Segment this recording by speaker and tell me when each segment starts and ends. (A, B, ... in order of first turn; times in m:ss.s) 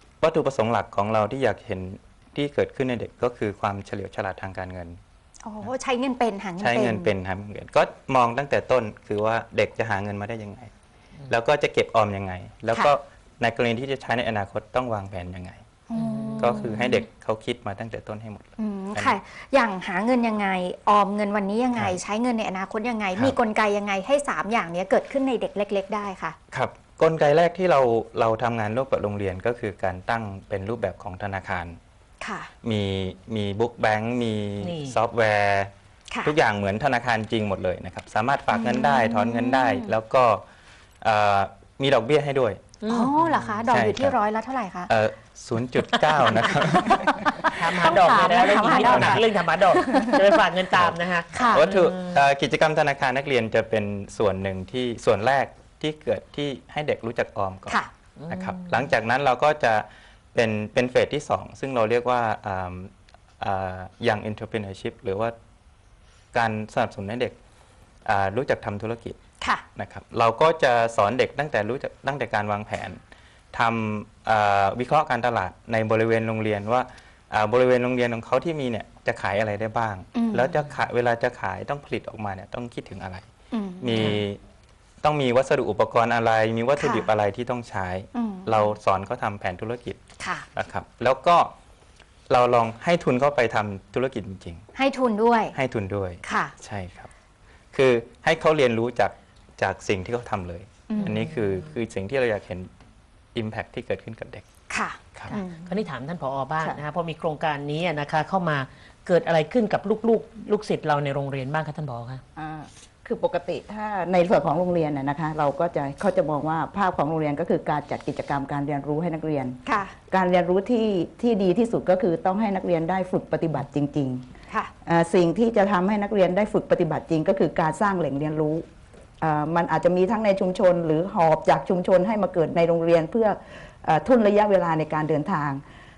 0:00.2-0:05.0 A
0:05.4-0:07.1 B
0:06.6-0:10.7 A
0:11.3-0:15.6 A
0:15.9-0:17.0 B
0:16.0-0:16.7 C
0:16.4-0:19.1 A
0:18.6-0:26.4 B
0:26.5-0:31.8 A
0:32.2-0:32.5 B
0:32.6-0:35.7 A
0:34.6-0:35.0 C
0:36.2-0:40.4 A
0:38.5-0:39.9 B
0:41.0-0:42.8 A
0:42.8-0:43.1 C
0:42.9-0:44.9 B
0:43.6-0:44.2 A
0:44.9-0:47.2 A
0:45.8-0:50.1 B
0:47.6-0:52.2 C
0:48.8-0:49.2 A
0:50.7-1:05.3 A
0:51.3-0:51.6 B
0:58.2-0:58.7 C
1:06.3-1:07.3 A
1:08.0-1:09.2 A
1:09.7-1:13.0 A
1:13.5-1:23.2 A
1:20.1-1:20.5 B
1:23.5-1:24.0 B
1:23.8-1:24.4 A
1:23.9-1:24.2 C
1:25.0-1:30.0 A
1:26.8-1:27.1 B
1:28.1-1:28.8 B
1:30.2-1:30.5 B
1:30.5-1:31.5 A
1:32.3-1:34.6 A
1:34.7-1:35.6 B
1:35.5-1:37.1 A
1:36.2-1:36.5 B
1:37.7-1:42.7 A
1:40.9-1:41.2 B
1:41.1-1:41.5 C
1:43.3-1:44.4 A
1:44.7-1:45.7 B
1:45.3-1:52.2 C
1:52.4-1:59.6 D
1:59.6-1:59.9 B
2:00.1-2:04.2 D
2:04.8-2:08.6 D
2:09.2-2:15.6 D